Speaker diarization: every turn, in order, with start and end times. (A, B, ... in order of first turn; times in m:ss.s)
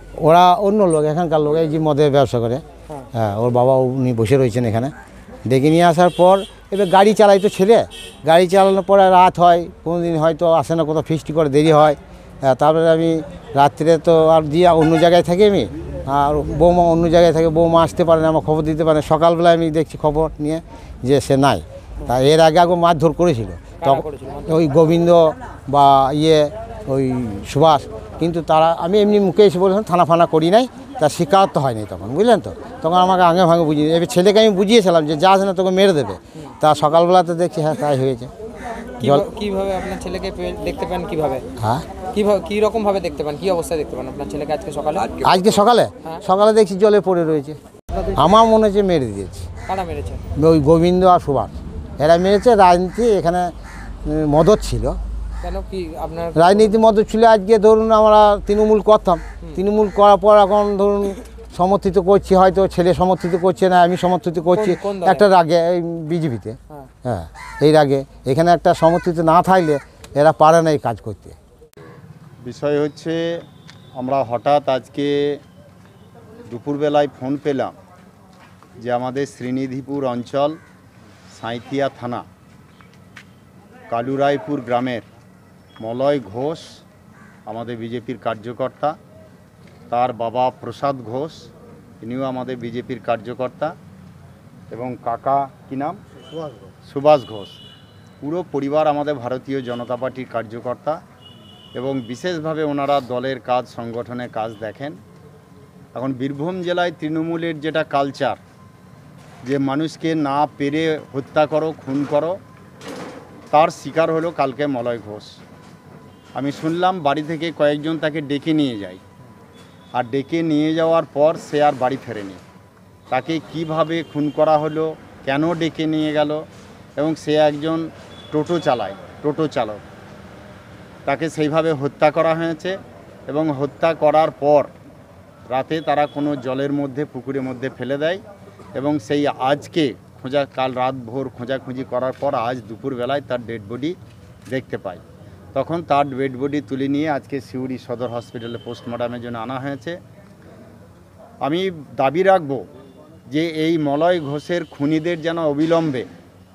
0:00.2-0:04.9 A
0:05.5-0:38.3 A
0:23.8-0:24.6 B
0:39.0-0:41.4 B
0:39.0-0:39.3 A
0:41.6-0:41.9 A
0:42.0-0:46.2 B
0:45.2-0:47.6 A
0:48.1-0:49.5 A
0:49.7-0:50.2 B
0:50.4-0:53.5 A
0:54.0-0:55.0 A
0:55.4-0:56.8 B
0:56.4-1:11.4 A
1:04.5-1:05.3 B
1:12.4-1:15.4 C
1:16.5-1:17.8 C
1:18.8-1:20.6 C
1:21.3-1:22.3 C
1:23.9-1:25.0 C
1:25.8-1:26.8 C
1:27.5-1:29.0 C
1:29.9-1:31.5 C
1:32.0-1:33.8 C
1:34.7-1:36.0 C
1:36.8-1:37.6 C
1:38.2-1:41.0 C
1:41.7-1:45.0 C
1:45.9-1:48.4 C
1:49.4-1:52.4 C
1:53.5-1:55.4 C
1:56.3-1:59.0 C
1:59.9-2:02.4 C
2:03.1-2:09.8 C
2:11.1-2:14.7 C
2:15.5-2:18.2 C
2:18.8-2:25.0 C
2:25.5-2:30.0 C
2:31.4-2:32.7 C
2:33.3-2:36.1 C